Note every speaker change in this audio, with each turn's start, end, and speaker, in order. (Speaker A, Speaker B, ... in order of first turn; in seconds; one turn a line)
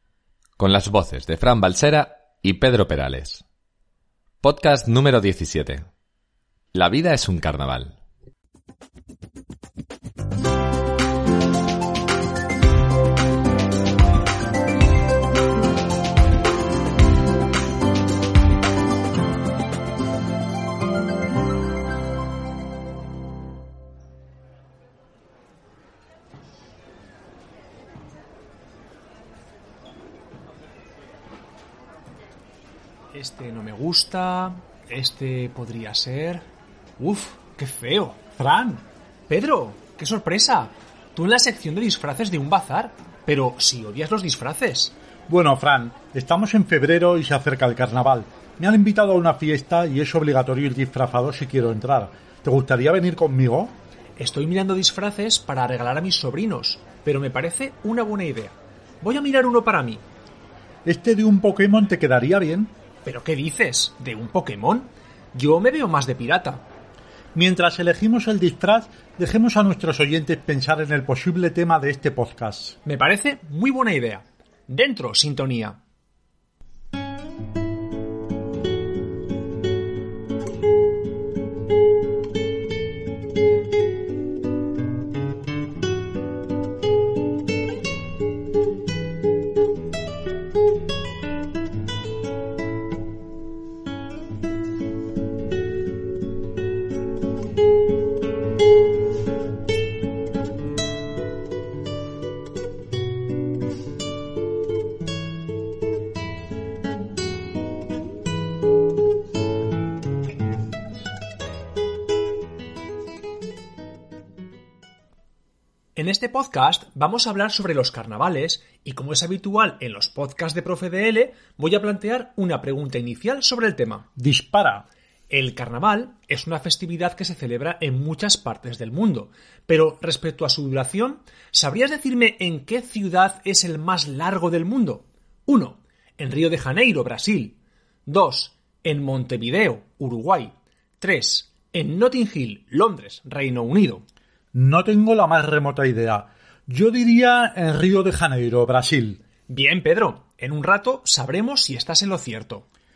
Speaker A: 0.6-3.4
Speaker A: 4.4-5.8
Speaker A: 6.7-7.9
Speaker B: 33.1-36.4
Speaker B: 37.0-38.2
Speaker C: 38.4-38.8
Speaker B: 39.3-44.9
Speaker C: 45.3-53.7
Speaker B: 54.2-60.0
Speaker C: 60.8-62.7
Speaker B: 63.0-66.6
Speaker C: 67.3-72.8
Speaker B: 72.8-75.8
Speaker B: 116.0-124.1
Speaker C: 124.2-124.8
Speaker B: 125.3-144.0
Speaker C: 144.5-149.2
Speaker B: 149.5-152.7